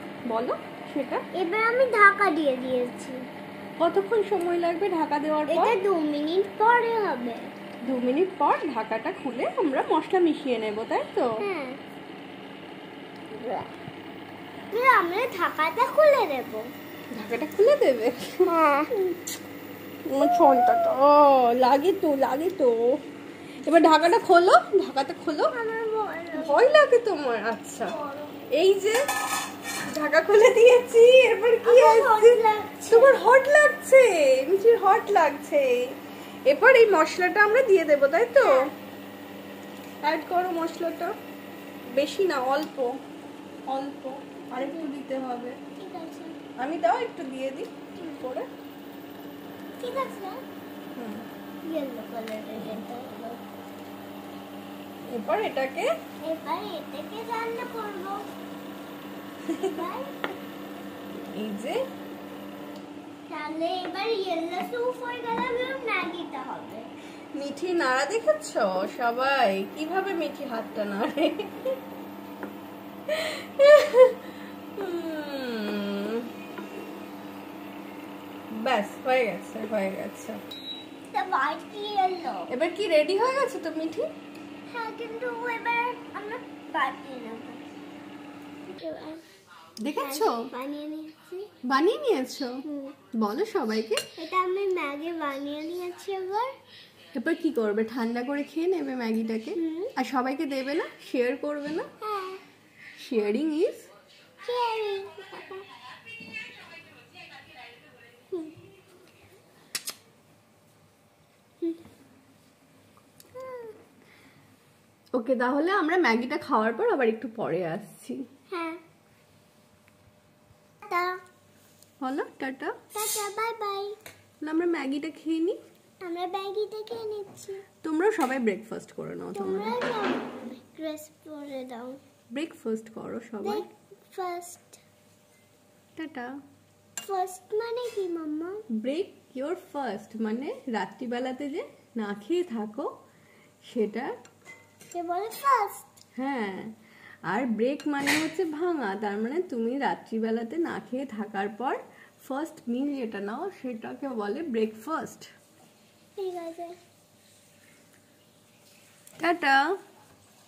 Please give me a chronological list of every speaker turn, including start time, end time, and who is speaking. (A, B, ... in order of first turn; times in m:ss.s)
0:00.3-0:01.2 A
0:01.4-0:03.2 B
0:03.8-0:05.8 A
0:05.5-0:07.4 B
0:07.8-0:11.3 A
0:11.4-0:11.8 B
0:13.3-0:13.7 B
0:14.7-0:16.7 B
0:17.1-0:18.4 A
0:18.5-0:19.2 B
0:20.1-0:22.9 A
0:23.6-0:25.5 A
0:25.5-0:26.8 B
0:26.4-0:28.0 A
0:27.9-0:28.5 B
0:28.5-0:29.0 A
0:29.9-0:35.7 A
0:31.6-0:33.2 B
0:36.5-0:38.7 A
0:38.4-0:38.7 B
0:40.0-0:41.1 A
0:42.0-0:43.0 A
0:43.7-0:45.6 A
0:44.5-0:44.9 B
0:45.8-0:46.4 B
0:46.6-0:48.5 A
0:49.8-0:50.4 B
0:51.0-0:51.2 A
0:51.7-0:53.4 B
0:55.1-0:55.9 A
0:56.2-0:58.3 B
0:59.6-1:00.2 B
1:01.3-1:01.8 A
1:03.3-1:06.9 B
1:07.4-1:11.8 A
1:13.1-1:16.3 A
1:18.5-1:20.4 A
1:21.1-1:22.5 B
1:22.5-1:24.1 A
1:24.7-1:27.6 B
1:28.7-1:29.2 B
1:29.8-1:30.4 A
1:29.9-1:31.5 B
1:31.6-1:32.6 A
1:32.6-1:33.0 B
1:33.1-1:34.0 A
1:34.2-1:36.5 B
1:37.2-1:41.9 A
1:39.6-1:39.9 B
1:42.0-1:42.4 B
1:43.0-1:43.9 A
1:44.4-1:45.6 B
1:53.4-1:53.7 B
1:55.2-1:58.2 A
1:58.5-1:58.8 B
2:00.8-2:01.2 B
2:02.0-2:02.8 A
2:03.0-2:04.0 B
2:04.4-2:05.6 A
2:06.0-2:07.6 B
2:07.8-2:09.8 A
2:09.4-2:12.0 B
2:12.3-2:13.6 A
2:13.4-2:14.8 B
2:16.0-2:16.3 A
2:17.0-2:18.6 B
2:18.8-2:22.9 A
2:23.7-2:24.1 A
2:24.9-2:25.9 B
2:26.2-2:26.7 A
2:27.3-2:35.3 A
2:36.2-2:36.8 B
2:39.2-2:39.6 A